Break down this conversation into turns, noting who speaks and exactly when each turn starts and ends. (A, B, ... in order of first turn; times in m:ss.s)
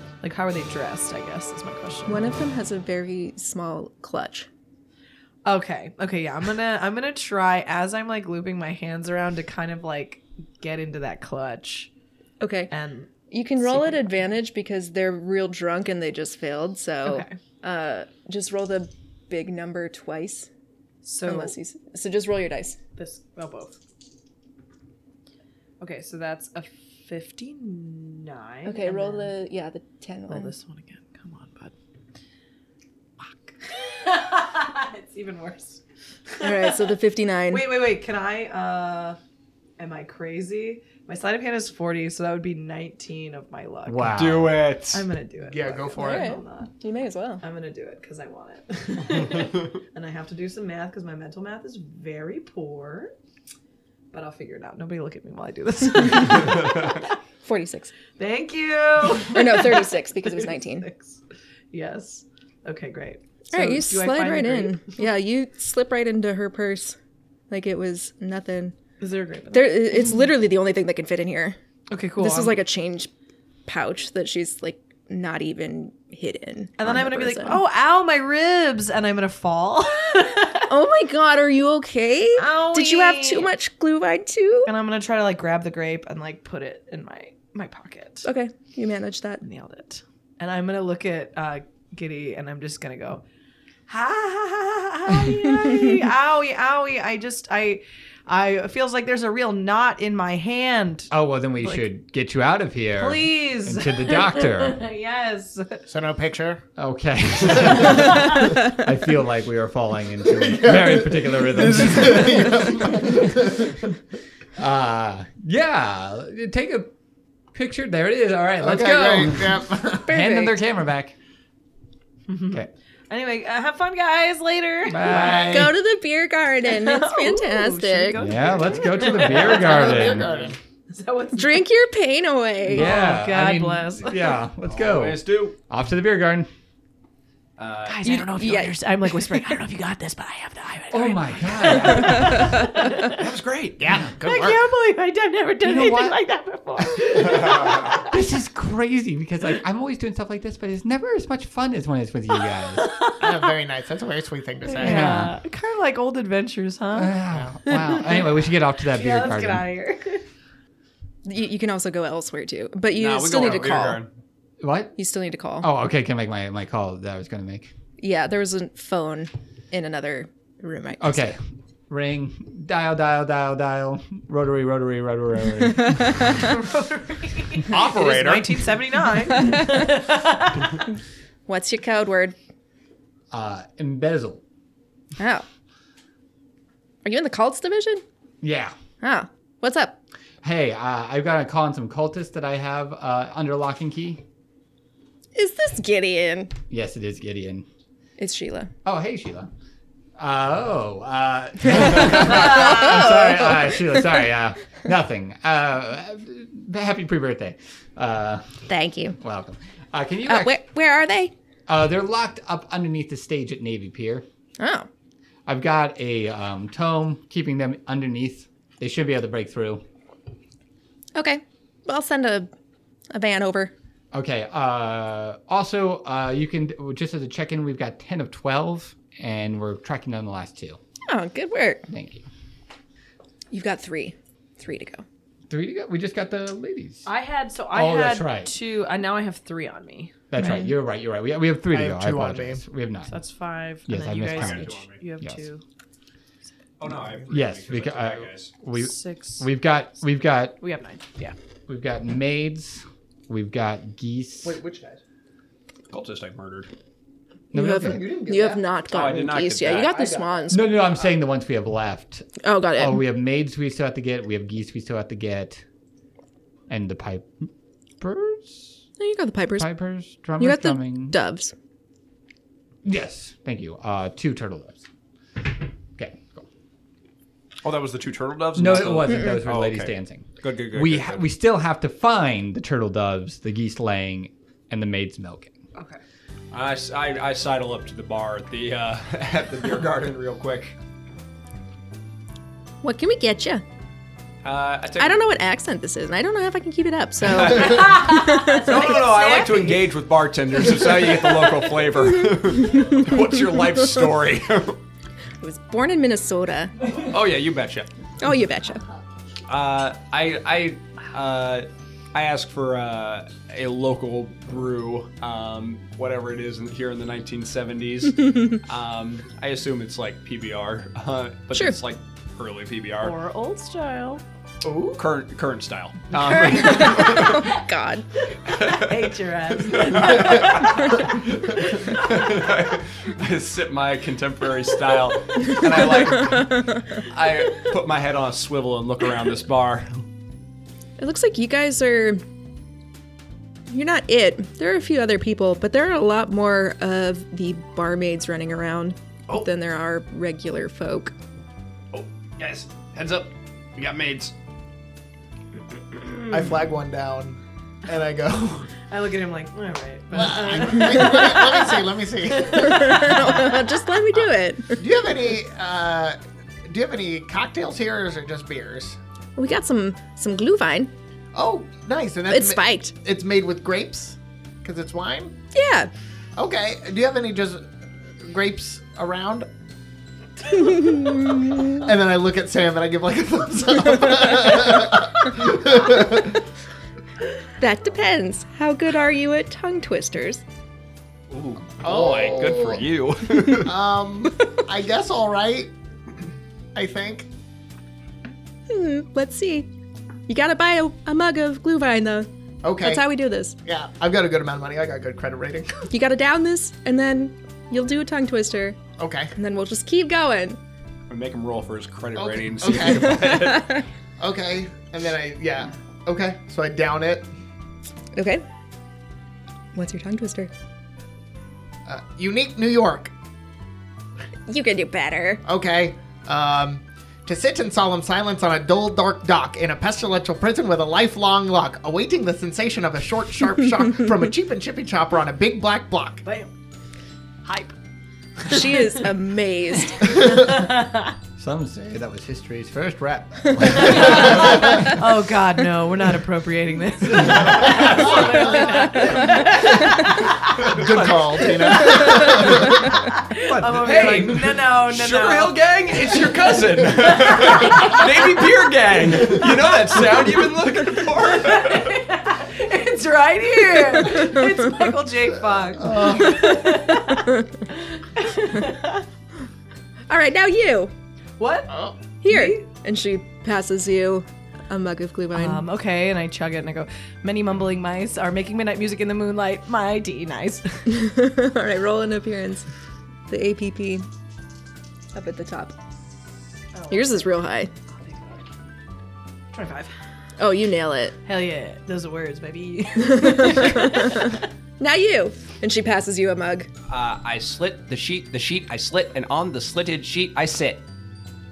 0:00.2-0:02.3 A
0:02.1-0:04.5 B
0:05.5-0:11.9 A
0:12.4-0:12.7 B
0:12.7-0:14.0 A
0:13.3-0:20.5 B
0:17.0-0:17.4 A
0:21.0-0:21.6 A
0:21.3-0:22.8 B
0:23.0-0:23.8 A
0:25.8-0:29.4 A
0:28.7-0:30.5 B
0:30.3-0:31.7 A
0:33.2-0:36.9 A
0:36.4-0:37.7 B
0:37.5-0:39.2 A
0:39.8-0:44.3 A
0:43.9-0:44.7 C
0:44.2-0:45.1 D
0:44.9-0:46.7 A
0:45.4-0:46.4 E
0:46.0-0:47.4 B
0:47.4-0:53.1 A
0:54.1-0:56.7 A
0:57.4-0:57.9 B
0:58.2-1:01.2 A
0:59.2-1:00.9 B
1:01.7-1:04.9 A
1:03.5-1:07.0 B
1:07.5-1:08.8 B
1:09.0-1:10.2 A
1:09.5-1:11.6 B
1:11.9-1:12.6 A
1:12.2-1:13.1 B
1:13.7-1:17.6 B
1:16.8-1:20.7 A
1:20.7-1:24.7 B
1:22.4-1:23.5 A
1:24.7-1:28.3 A
1:28.2-1:29.4 B
1:29.4-1:33.2 A
1:33.9-1:41.9 A
1:41.1-1:44.8 C
1:43.0-1:45.8 A
1:45.9-1:46.6 E
1:46.8-1:53.8 C
1:50.3-1:53.7 E
1:54.6-1:56.9 C
1:57.5-2:01.2 C
1:58.6-2:00.1 E
2:00.1-2:00.6 B
2:02.3-2:05.6 A
2:04.9-2:05.8 C
2:05.3-2:08.2 B
2:06.6-2:11.7 A
2:08.2-2:10.3 C
2:10.2-2:10.5 D
2:11.4-2:12.9 B
2:12.7-2:16.5 C
2:12.7-2:14.4 A
2:14.7-2:15.6 D
2:17.6-2:18.0 D
2:17.8-2:23.2 A
2:18.0-2:19.5 B
2:20.9-2:22.5 C
2:23.1-2:23.8 D
2:23.8-2:24.6 E
2:24.2-2:28.1 A
2:25.6-2:26.2 C
2:28.1-2:32.9 C
2:32.7-2:33.5 A
2:33.2-2:35.1 E
2:34.7-2:40.2 A
2:34.8-2:35.4 C
2:37.0-2:39.6 C
2:41.2-2:44.0 B
2:42.9-2:44.1 D
2:44.6-2:45.0 C
2:45.0-2:45.7 B
2:45.6-2:47.7 C
2:48.0-2:51.2 B
2:51.0-2:56.4 C
2:56.4-3:00.8 A
2:57.7-2:58.7 D
2:59.4-2:59.8 B
3:01.5-3:02.4 B
3:03.3-3:04.4 C
3:05.2-3:05.4 B
3:07.0-3:08.0 B
3:08.4-3:08.7 C
3:09.0-3:10.0 B
3:10.4-3:14.2 C
3:15.4-3:16.5 B
3:16.7-3:17.7 C
3:18.2-3:18.7 B
3:18.8-3:19.5 C
3:20.2-3:28.5 C
3:21.9-3:23.8 B
3:28.7-3:29.2 B
3:29.2-3:30.6 C
3:30.3-3:31.3 B
3:31.7-3:34.2 C
3:34.6-3:34.9 B
3:35.5-3:39.8 C
3:41.2-3:42.5 B
3:43.1-3:43.7 B
3:44.1-3:50.8 C
3:51.1-3:51.8 B
3:51.9-3:52.3 C
3:53.5-3:55.0 B
3:55.5-3:57.1 C
3:57.0-4:00.1 A
3:57.7-3:58.5 C
4:00.3-4:03.1 C
4:00.4-4:00.7 B
4:01.7-4:02.6 E
4:03.1-4:05.6 A
4:03.9-4:05.5 C
4:04.1-4:05.0 D
4:06.8-4:08.5 D
4:07.3-4:10.6 C
4:08.7-4:09.5 A
4:10.6-4:11.4 A
4:11.7-4:14.6 C
4:14.4-4:15.0 E
4:15.9-4:16.7 D
4:17.5-4:18.0 C
4:17.5-4:20.7 B
4:17.7-4:18.7 E
4:18.9-4:20.0 D
4:19.8-4:20.4 E
4:20.5-4:25.6 C
4:22.4-4:23.0 B
4:26.7-4:27.3 C
4:28.0-4:28.8 C
4:29.0-4:29.7 B
4:29.6-4:31.2 C
4:30.4-4:31.5 B
4:32.8-4:34.8 C
4:36.0-4:36.5 C
4:37.6-4:41.2 D
4:38.6-4:45.5 C
4:45.8-4:46.0 A
4:46.5-4:50.7 D
4:52.8-4:53.6 B
4:54.4-4:55.3 D
4:55.0-4:59.0 B
4:57.2-5:04.8 D
4:58.2-4:59.8 A
5:05.4-5:06.8 B
5:06.9-5:07.9 D
5:08.2-5:08.8 B
5:09.5-5:23.2 D
5:23.0-5:24.2 A
5:24.6-5:25.0 E
5:24.6-5:27.6 D
5:26.1-5:27.4 A
5:26.5-5:28.1 B
5:28.5-5:29.0 D
5:28.6-5:32.4 A
5:29.6-5:40.0 D
5:36.5-5:36.8 B
5:41.0-5:42.2 B
5:43.7-5:51.1 B
5:51.9-5:54.3 D
5:56.3-5:58.7 E
5:58.9-6:03.4 A
6:00.1-6:03.0 E
6:02.6-6:04.8 B
6:04.8-6:09.0 E
6:09.4-6:10.9 B
6:11.3-6:15.3 E
6:12.3-6:12.9 B
6:15.5-6:15.9 B
6:16.4-6:19.5 E
6:20.5-6:21.9 B
6:21.8-6:26.4 E
6:27.6-6:30.4 B
6:31.3-6:33.8 D
6:31.8-6:32.9 E
6:33.6-6:35.7 E
6:36.8-6:37.3 E
6:38.7-6:39.7 B
6:40.3-6:43.6 B
6:42.6-6:43.1 E
6:43.6-6:45.9 E
6:45.9-6:50.6 B
6:49.0-6:49.3 E
6:51.1-6:53.8 D
6:52.2-6:53.6 E
6:53.2-6:53.8 B
6:54.2-6:57.3 E
6:58.2-6:58.4 B
6:59.7-7:00.5 B
7:01.9-7:03.1 E
7:04.5-7:05.4 B
7:05.4-7:16.2 E
7:16.2-7:16.5 A
7:17.4-7:17.8 A
7:18.4-7:19.0 A
7:18.5-7:20.2 B
7:20.0-7:21.1 A
7:20.1-7:20.6 E
7:21.4-7:24.8 C
7:23.8-7:30.8 A
7:30.6-7:32.8 E
7:31.7-7:32.5 A
7:33.2-7:35.6 A
7:33.4-7:34.0 C
7:33.6-7:42.0 D
7:41.1-7:49.0 A
7:45.8-7:46.4 E
7:50.1-7:50.9 B
7:51.4-7:52.6 A
7:51.7-7:52.0 E
7:52.2-7:55.7 B
7:55.3-8:00.8 A
8:00.9-8:02.7 B
8:03.3-8:04.1 B
8:05.1-8:05.8 B
8:06.7-8:07.1 A
8:06.9-8:07.7 B
8:07.9-8:08.5 A
8:09.5-8:09.9 A
8:10.4-8:11.2 B
8:11.2-8:14.3 A
8:13.1-8:16.7 B
8:16.9-8:20.8 D